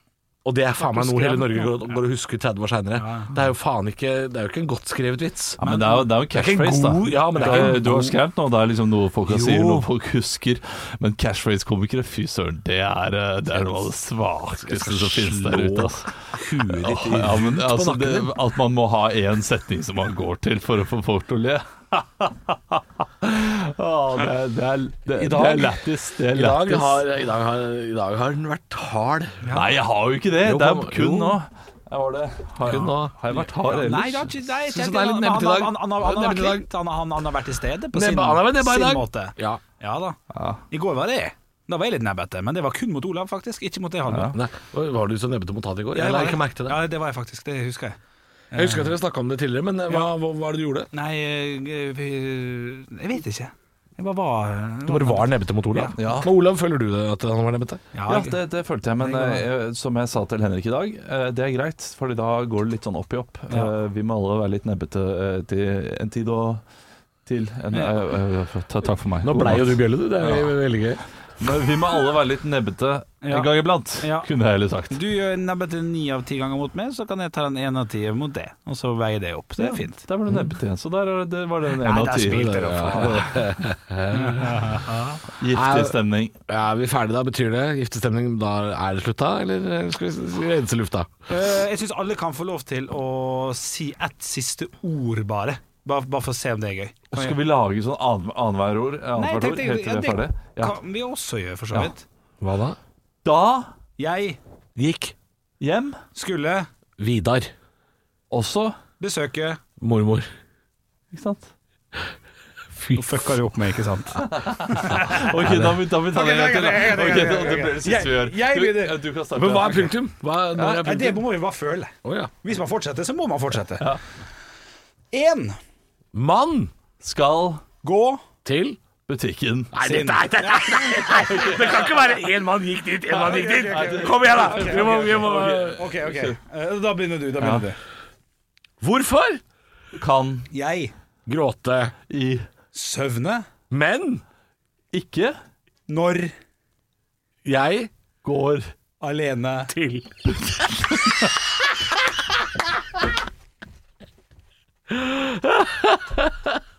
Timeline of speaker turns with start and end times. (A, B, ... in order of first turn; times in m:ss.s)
0:00.4-0:08.2 A
0:00.8-0:01.8 B
0:03.0-0:03.4 B
0:05.6-0:16.2 C
0:05.6-0:06.0 B
0:07.4-0:07.8 B
0:09.2-0:09.9 A
0:14.6-0:18.3 A
0:16.7-0:22.3 C
0:23.2-0:27.0 C
0:25.1-0:29.4 A
0:29.4-0:29.8 B
0:29.5-0:34.3 C
0:30.4-0:31.4 A
0:32.6-0:33.2 A
0:33.3-0:40.2 B
0:34.6-0:36.7 A
0:37.9-0:39.6 A
0:40.3-0:40.6 C
0:40.7-0:44.4 B
0:44.3-0:46.8 A
0:45.9-0:48.0 B
0:48.5-0:48.9 B
0:48.5-0:50.9 A
0:50.9-0:56.0 B
0:54.9-0:57.8 A
0:56.0-0:56.3 C
0:57.9-0:58.4 B
0:58.1-1:06.6 C
0:59.0-0:59.5 B
1:07.2-1:10.5 C
1:09.2-1:11.0 A
1:11.4-1:15.0 C
1:13.2-1:14.3 B
1:14.9-1:20.0 B
1:19.6-1:23.4 C
1:20.3-1:20.5 A
1:21.8-1:23.4 B
1:22.3-1:24.8 A
1:24.1-1:25.2 B
1:25.4-1:26.3 C
1:25.5-1:31.1 A
1:31.3-1:37.4 B
1:37.1-1:40.7 C
1:39.2-1:42.0 B
1:42.4-1:42.8 A
1:43.2-1:43.7 C
1:44.0-1:44.4 B
1:44.8-1:45.1 A
1:45.6-1:46.0 C
1:46.1-1:46.7 B
1:47.0-1:47.5 A
1:48.3-1:48.8 C
1:49.0-1:49.6 B
1:49.8-1:50.3 A
1:51.1-1:51.5 C
1:52.7-1:53.2 A
1:52.9-1:59.0 B
1:54.2-1:59.9 C
1:59.3-2:01.2 A
2:00.5-2:03.9 B
2:02.0-2:02.3 A
2:05.1-2:05.6 B
2:06.1-2:06.7 A
2:07.0-2:07.6 C
2:07.8-2:08.2 B
2:08.4-2:08.8 A
2:09.1-2:09.7 C
2:09.7-2:15.8 A
2:09.8-2:11.6 B
2:13.1-2:17.8 B
2:13.5-2:16.3 C
2:17.4-2:17.6 C
2:18.8-2:19.4 A
2:19.9-2:20.5 C
2:20.5-2:20.9 B
2:21.2-2:21.9 A
2:22.1-2:22.4 C
2:22.7-2:23.4 B
2:23.7-2:24.2 A
2:24.9-2:25.4 C
2:25.9-2:26.3 B
2:27.4-2:27.9 A
2:28.2-2:28.7 C
2:29.0-2:29.7 B
2:29.7-2:30.3 A
2:34.9-2:36.3 A